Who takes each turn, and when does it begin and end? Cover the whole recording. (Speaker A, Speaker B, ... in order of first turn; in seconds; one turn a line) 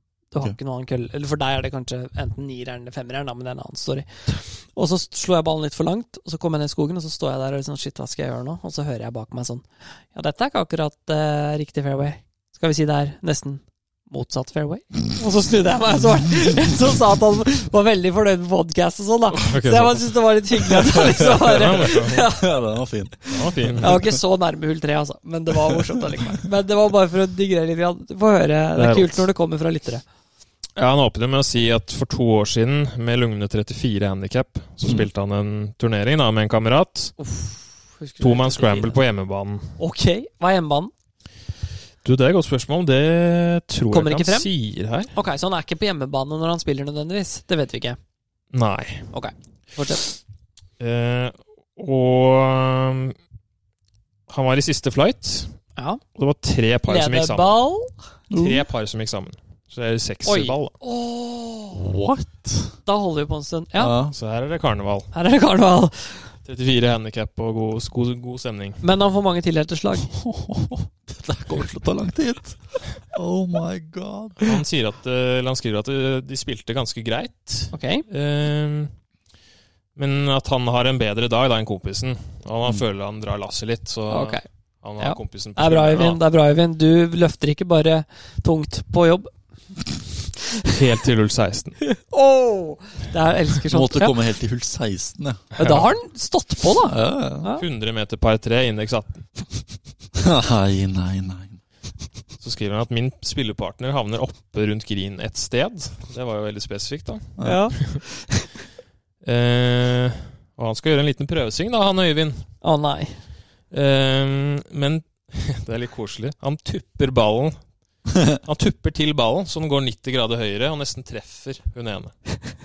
Speaker A: 0.3-22.5
Speaker B: 19.3-20.1
Speaker B: 20.8-22.3
Speaker C: 22.2-23.2
Speaker A: 23.2-30.0
Speaker B: 23.3-24.0
Speaker C: 23.7-24.1
Speaker B: 28.8-29.3
Speaker B: 30.8-37.2
Speaker A: 37.2-39.0
Speaker B: 38.2-39.8
Speaker A: 39.8-40.9
Speaker B: 42.0-45.1
Speaker A: 43.9-44.5
Speaker A: 45.1-48.0
Speaker B: 48.5-49.1
Speaker A: 49.1-50.1
Speaker B: 50.8-53.1
Speaker B: 54.3-55.6
Speaker A: 55.8-56.0
Speaker B: 56.2-57.5
Speaker A: 56.9-58.1
Speaker C: 58.3-58.6
Speaker B: 58.3-60.7
Speaker A: 60.2-61.8
Speaker C: 61.7-62.8
Speaker A: 62.9-64.0
Speaker C: 63.8-64.2
Speaker B: 64.1-65.1
Speaker A: 65.1-66.3
Speaker B: 66.5-68.8
Speaker A: 68.8-70.1
Speaker C: 70.1-74.6
Speaker B: 74.4-78.9
Speaker A: 77.7-78.1
Speaker B: 80.0-86.2
Speaker A: 84.1-84.4
Speaker A: 85.0-89.3
Speaker B: 90.7-91.8
Speaker A: 91.8-94.3
Speaker C: 93.7-95.4
Speaker A: 95.6-97.6
Speaker B: 95.6-95.9
Speaker C: 96.8-97.5
Speaker B: 97.5-99.3
Speaker C: 100.2-101.6
Speaker B: 102.4-108.0
Speaker A: 107.4-108.5
Speaker B: 109.2-112.5
Speaker A: 112.6-113.2
Speaker B: 113.7-117.6
Speaker B: 118.3-122.1